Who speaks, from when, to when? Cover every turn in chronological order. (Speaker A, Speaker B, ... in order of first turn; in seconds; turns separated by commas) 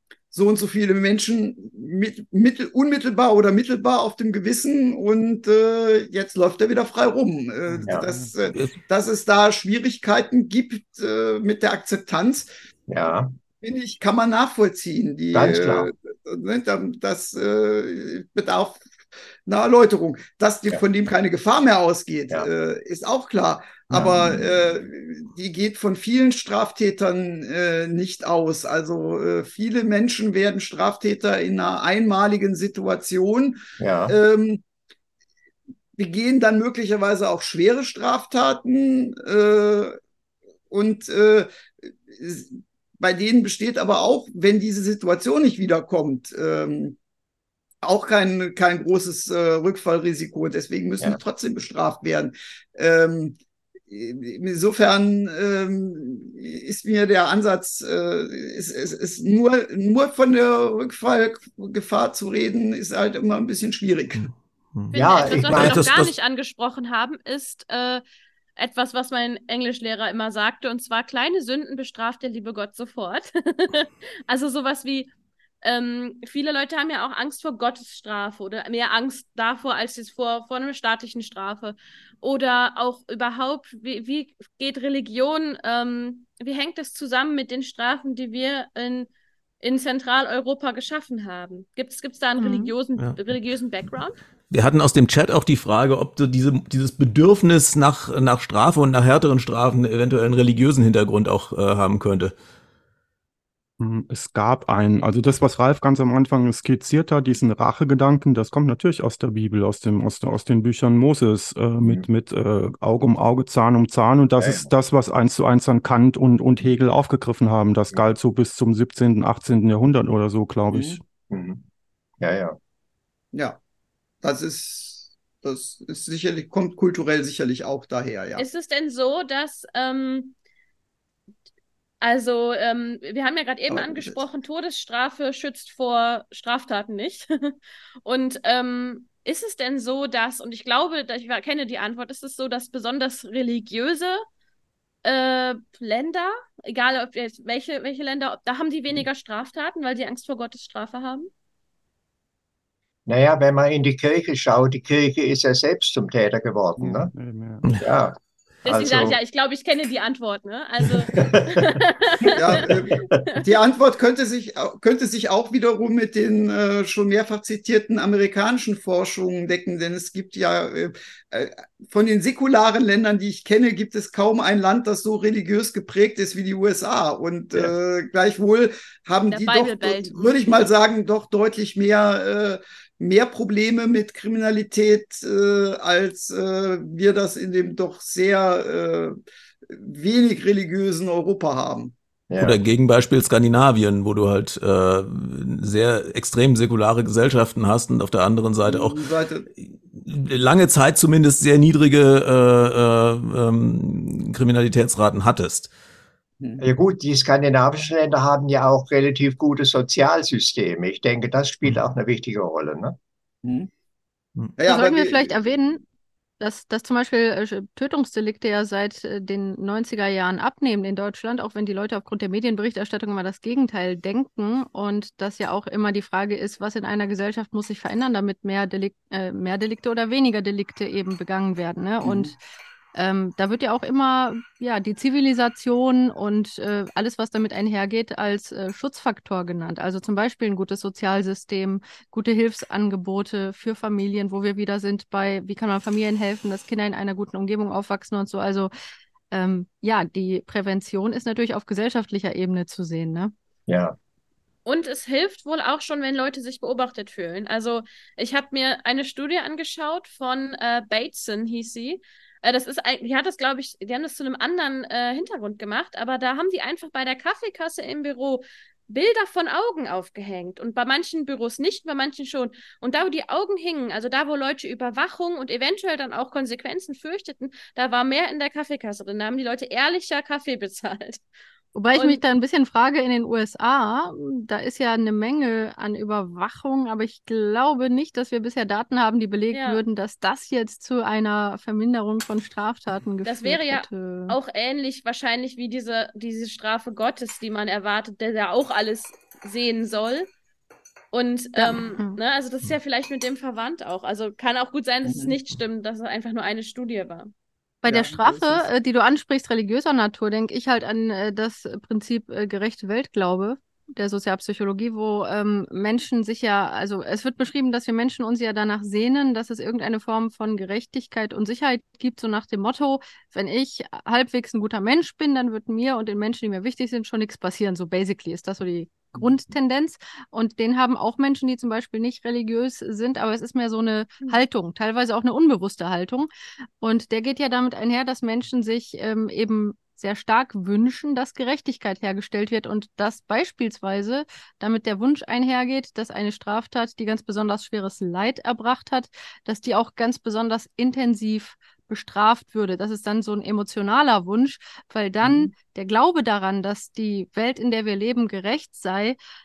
Speaker A: 0.3-12.5, Speaker B: 7.7-8.3, Speaker C: 8.5-8.8, Speaker D: 12.9-13.3, Speaker A: 13.6-18.9, Speaker D: 15.3-15.9, Speaker A: 19.4-34.6, Speaker D: 23.9-24.5, Speaker D: 33.8-34.1, Speaker A: 36.0-40.0, Speaker A: 40.7-47.0, Speaker A: 47.8-53.4, Speaker A: 53.9-64.3, Speaker C: 64.2-66.1, Speaker E: 64.9-68.0, Speaker D: 64.9-65.8, Speaker E: 68.6-75.1, Speaker E: 75.6-89.1, Speaker E: 89.6-94.1, Speaker F: 92.4-92.7, Speaker C: 94.5-102.3, Speaker B: 103.8-121.0, Speaker D: 114.4-114.7, Speaker A: 120.7-121.0, Speaker D: 121.3-121.6, Speaker D: 122.2-122.6, Speaker A: 124.2-128.4, Speaker E: 128.4-130.3, Speaker E: 132.0-144.2, Speaker A: 133.7-134.2, Speaker E: 145.0-151.3, Speaker D: 153.1-157.1, Speaker B: 156.8-157.6, Speaker D: 157.8-159.2, Speaker E: 158.6-163.4, Speaker D: 161.2-161.7, Speaker A: 162.3-189.2, Speaker D: 162.9-163.2, Speaker E: 179.3-180.4, Speaker A: 189.7-191.9, Speaker D: 192.3-192.6, Speaker C: 192.4-199.0, Speaker A: 198.6-199.5, Speaker C: 199.9-205.7, Speaker A: 206.4-206.6, Speaker D: 206.6-212.9, Speaker A: 213.4-213.7, Speaker A: 214.6-215.5, Speaker F: 214.6-215.8, Speaker F: 216.4-232.4, Speaker F: 232.9-248.7, Speaker F: 249.3-253.3, Speaker D: 253.7-253.9, Speaker E: 254.7-281.2, Speaker F: 281.7-294.4, Speaker E: 281.9-282.2, Speaker E: 289.5-289.8, Speaker E: 293.2-300.3, Speaker E: 301.1-307.3, Speaker F: 301.6-302.2, Speaker A: 305.1-305.3, Speaker F: 307.8-336.3, Speaker A: 307.9-308.7, Speaker F: 336.8-359.2